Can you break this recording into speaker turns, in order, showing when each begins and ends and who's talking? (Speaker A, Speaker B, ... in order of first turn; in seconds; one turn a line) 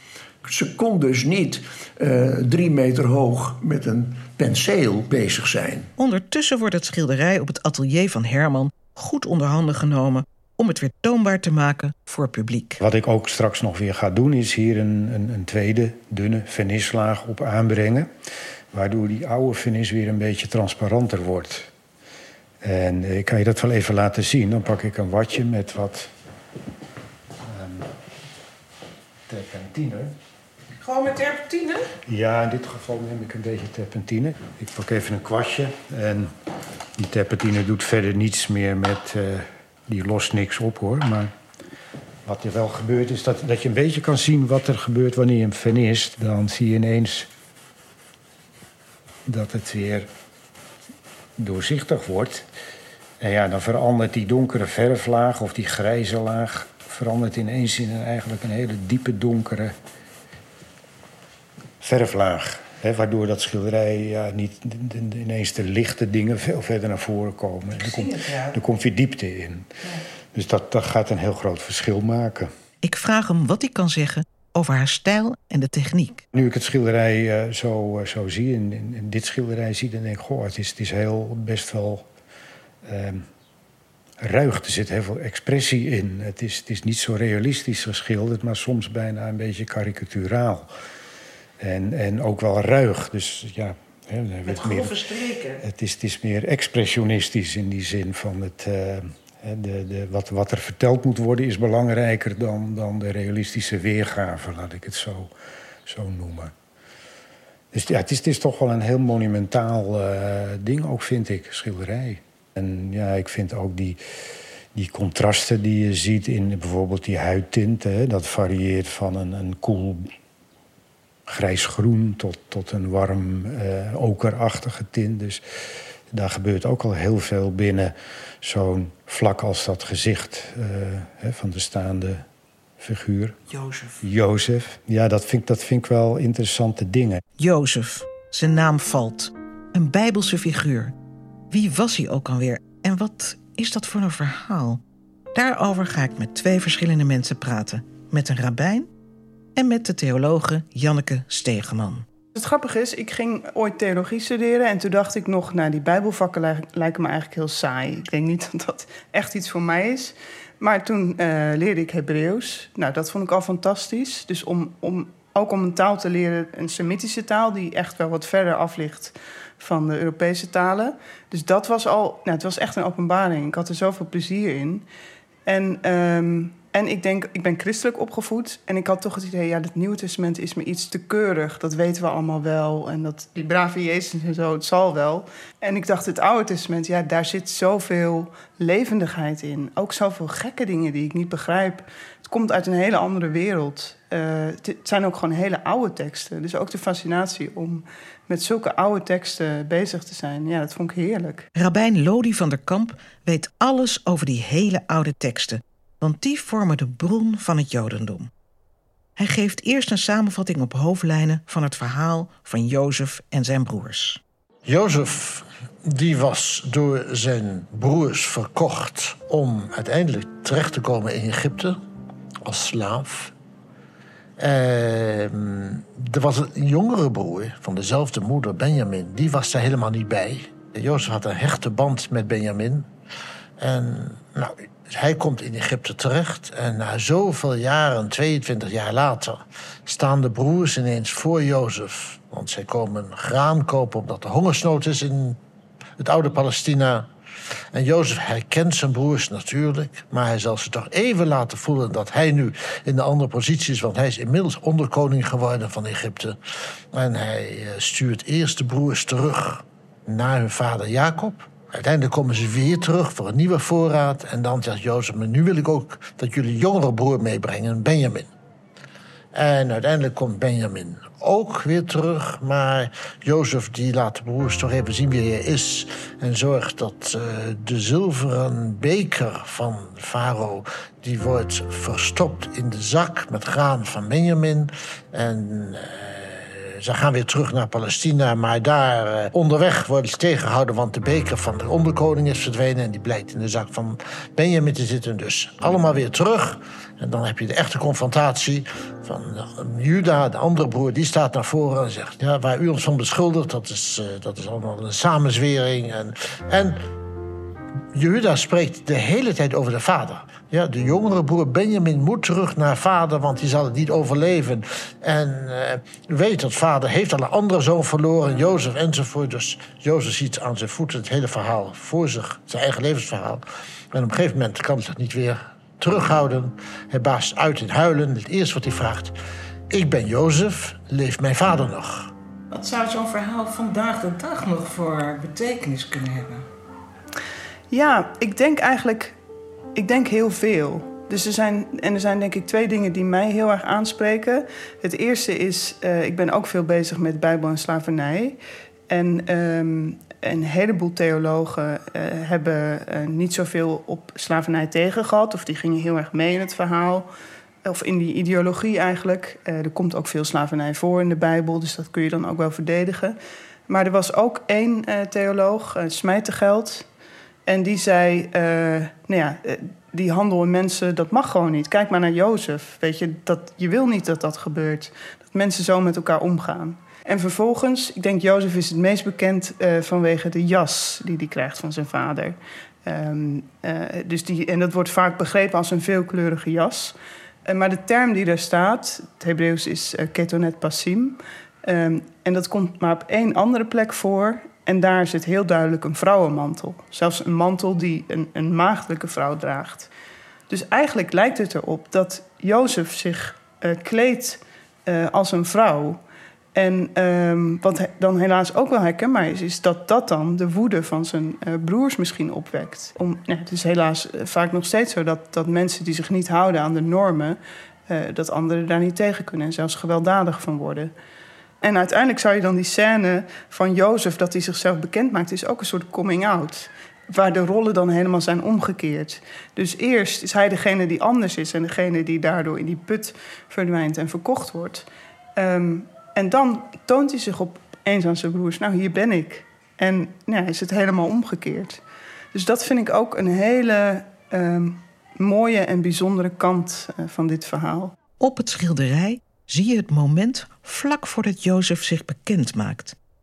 Speaker A: 0.4-5.9
Speaker B: 6.0-12.8
Speaker C: 12.8-18.1
Speaker C: 18.7-21.7
Speaker C: 22.6-26.1
Speaker C: 27.5-27.9
Speaker C: 29.3-30.1
Speaker B: 30.8-31.9
Speaker C: 32.0-36.3
Speaker C: 37.0-41.3
Speaker C: 42.2-47.3
Speaker C: 49.2-50.1
Speaker C: 51.4-52.4
Speaker C: 53.2-59.7
Speaker C: 61.8-69.7
Speaker B: 67.8-68.6
Speaker C: 70.3-72.5
Speaker B: 72.8-76.2
Speaker C: 76.3-82.0
Speaker C: 82.8-83.2
Speaker C: 84.2-90.7
Speaker C: 91.6-94.9
Speaker B: 94.5-95.6
Speaker C: 95.6-105.3
Speaker C: 105.8-106.5
Speaker C: 107.7-114.0
Speaker C: 114.7-120.0
Speaker C: 121.3-125.4
Speaker C: 126.1-132.2
Speaker C: 132.8-133.4
Speaker B: 133.5-134.0
Speaker C: 134.0-137.2
Speaker B: 137.4-140.9
Speaker B: 141.5-144.8
Speaker B: 145.3-148.9
Speaker B: 149.6-152.0
Speaker D: 152.3-174.9
Speaker D: 175.5-201.5
Speaker B: 201.5-208.3
Speaker B: 209.2-214.2
Speaker E: 214.7-221.8
Speaker E: 222.4-223.3
Speaker E: 224.4-232.9
Speaker E: 233.6-245.4
Speaker E: 246.0-247.1
Speaker E: 247.7-256.4
Speaker E: 256.9-268.3
Speaker E: 269.3-306.8
Speaker E: 307.9-329.1
Speaker E: 329.7-332.1
Speaker B: 332.5-336.4
Speaker D: 337.7-339.2
Speaker D: 339.7-348.4
Speaker D: 348.9-357.1
Speaker D: 357.6-363.1
Speaker D: 363.7-366.9
Speaker D: 367.5-399.9
Speaker D: 400.5-406.0
Speaker D: 406.5-420.9
Speaker D: 421.6-434.8
Speaker D: 435.4-441.8
Speaker D: 442.3-447.9
Speaker B: 448.2-453.0